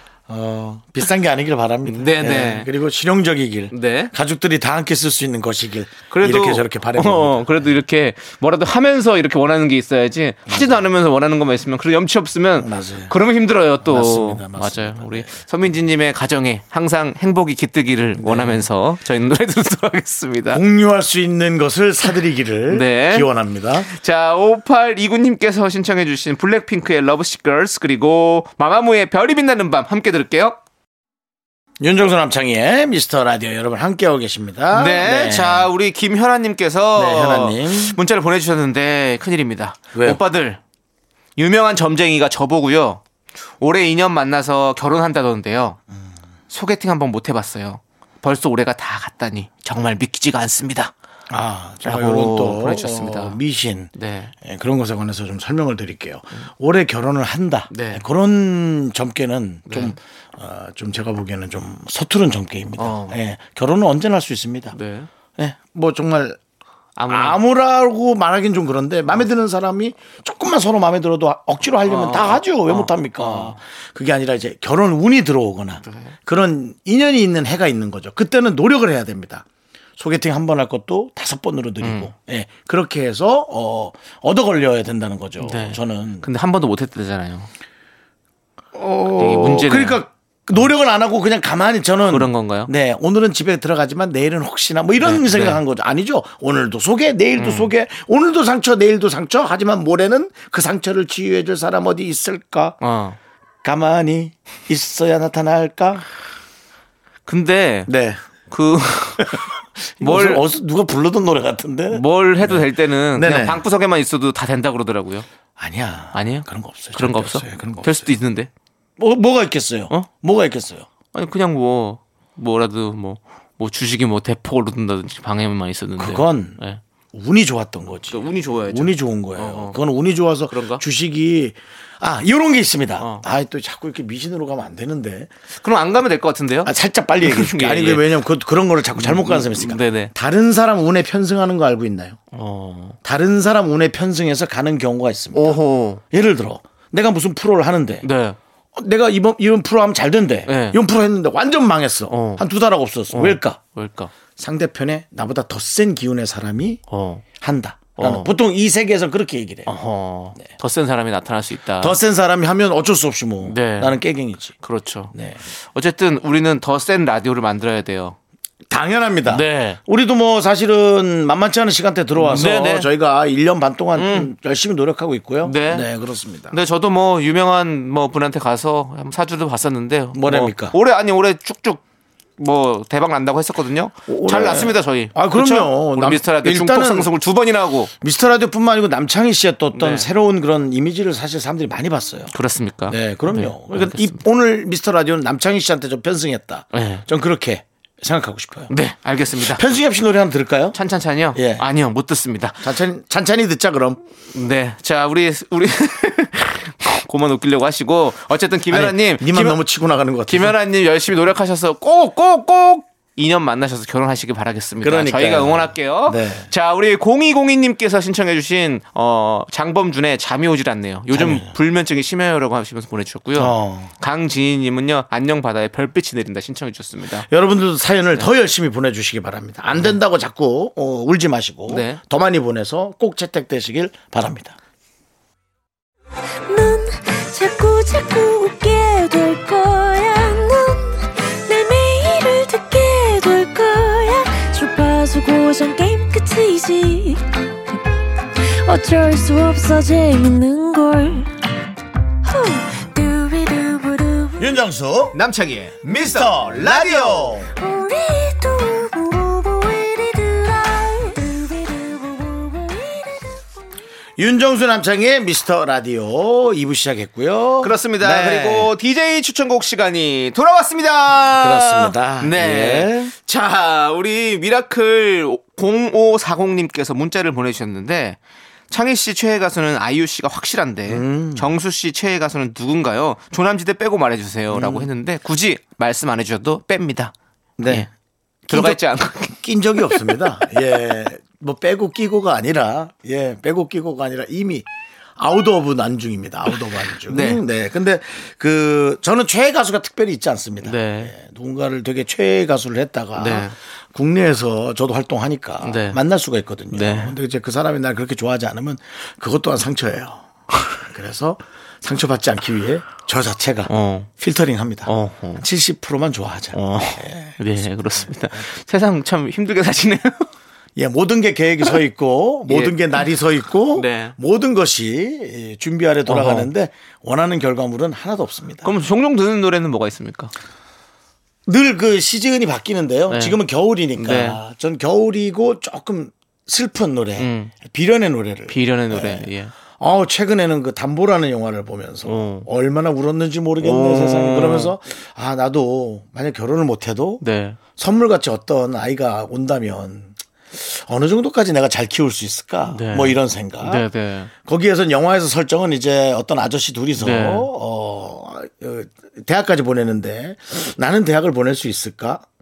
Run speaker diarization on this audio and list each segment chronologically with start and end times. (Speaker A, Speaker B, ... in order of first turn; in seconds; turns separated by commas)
Speaker A: 0.3-7.7, Speaker B: 1.9-2.7, Speaker B: 3.7-4.1, Speaker B: 6.1-20.6, Speaker A: 10.5-10.8, Speaker A: 12.6-13.1, Speaker A: 13.8-15.4, Speaker A: 18.2-18.6, Speaker A: 20.5-23.9, Speaker B: 22.7-23.3, Speaker B: 23.9-30.6, Speaker A: 31.8-35.7, Speaker B: 34.7-40.6, Speaker A: 36.9-38.0, Speaker A: 39.9-40.2, Speaker B: 41.4-43.0, Speaker B: 43.6-45.8, Speaker B: 46.5-50.9, Speaker A: 51.3-64.8, Speaker B: 51.8-53.4, Speaker B: 54.0-54.3, Speaker B: 57.7-58.0, Speaker B: 59.7-60.0, Speaker B: 62.8-63.2, Speaker B: 64.8-65.1, Speaker A: 65.4-66.4, Speaker B: 67.0-67.4, Speaker A: 67.1-79.5, Speaker B: 71.8-73.6, Speaker B: 75.9-76.1, Speaker A: 80.0-86.2, Speaker B: 81.8-82.1, Speaker B: 85.4-87.5, Speaker A: 88.7-102.8, Speaker B: 89.1-90.0, Speaker B: 92.0-92.7, Speaker B: 95.0-95.6, Speaker B: 97.4-97.7, Speaker B: 102.8-103.2, Speaker A: 103.6-106.0, Speaker B: 107.3-107.9, Speaker A: 107.9-108.2, Speaker B: 108.5-110.4, Speaker A: 110.0-113.6, Speaker B: 111.9-115.3, Speaker A: 115.6-118.1, Speaker B: 116.1-118.5, Speaker A: 119.0-120.9, Speaker B: 121.1-126.8, Speaker A: 126.0-126.6, Speaker A: 127.1-135.3, Speaker B: 128.1-129.8, Speaker B: 130.5-130.8, Speaker B: 133.0-133.2, Speaker B: 135.6-138.1, Speaker A: 136.6-142.2, Speaker B: 138.9-140.1, Speaker B: 142.3-143.0, Speaker A: 143.0-145.6, Speaker B: 145.3-146.0, Speaker A: 146.1-148.1, Speaker B: 148.0-148.4, Speaker A: 148.7-153.6, Speaker B: 150.5-150.8, Speaker B: 152.1-152.4, Speaker B: 153.1-154.1, Speaker A: 154.3-156.8, Speaker B: 156.9-157.2, Speaker A: 157.4-159.7, Speaker B: 157.9-158.3, Speaker B: 159.7-161.9, Speaker A: 161.8-164.6, Speaker B: 163.4-164.0, Speaker B: 164.6-165.1, Speaker A: 165.1-165.4, Speaker B: 165.7-168.2, Speaker A: 168.7-176.6, Speaker B: 169.3-169.8, Speaker B: 172.2-172.9, Speaker B: 173.9-174.3, Speaker B: 175.4-175.9, Speaker B: 176.5-181.8, Speaker A: 180.1-180.8, Speaker B: 182.4-187.9, Speaker A: 184.1-187.1, Speaker A: 188.0-192.3, Speaker B: 189.7-190.1, Speaker B: 192.3-194.2, Speaker A: 192.9-198.7, Speaker B: 196.7-197.0, Speaker B: 198.7-199.6, Speaker A: 199.4-200.8, Speaker B: 200.7-202.7, Speaker A: 201.3-201.7, Speaker A: 202.6-204.0, Speaker B: 204.3-209.6, Speaker A: 208.7-210.6, Speaker B: 210.3-227.3, Speaker A: 214.8-216.5, Speaker A: 221.1-221.5, Speaker A: 223.3-223.9, Speaker A: 227.2-234.6, Speaker B: 231.7-232.0, Speaker C: 236.5-247.8, Speaker C: 248.4-251.3, Speaker C: 252.2-254.6, Speaker A: 254.4-255.2, Speaker B: 255.1-257.4, Speaker A: 255.8-257.5, Speaker C: 257.6-263.4, Speaker A: 264.2-268.7, Speaker B: 267.6-278.2, Speaker A: 271.4-273.1, Speaker B: 278.7-287.1, Speaker A: 280.9-281.5, Speaker A: 284.5-284.9, Speaker A: 287.6-287.9, Speaker A: 288.5-294.6, Speaker B: 288.5-290.3, Speaker A: 295.2-310.2, Speaker B: 297.1-297.4, Speaker B: 300.6-301.1, Speaker B: 303.1-303.5, Speaker B: 305.6-306.0, Speaker B: 306.7-307.1, Speaker A: 310.8-317.4, Speaker B: 313.7-314.1, Speaker B: 314.9-315.4, Speaker B: 316.5-320.3, Speaker A: 318.0-318.4, Speaker A: 320.8-328.7, Speaker B: 322.5-322.8, Speaker B: 323.7-324.1, Speaker B: 326.1-326.5, Speaker B: 328.6-330.3, Speaker A: 331.4-339.3, Speaker B: 333.1-333.4, Speaker B: 333.9-334.4, Speaker B: 337.2-337.5, Speaker B: 338.5-339.5, Speaker A: 339.8-347.2, Speaker B: 342.1-342.5, Speaker B: 343.6-344.7, Speaker B: 347.2-347.6, Speaker A: 347.8-353.8, Speaker B: 352.7-354.3, Speaker A: 354.4-362.2, Speaker B: 357.0-357.5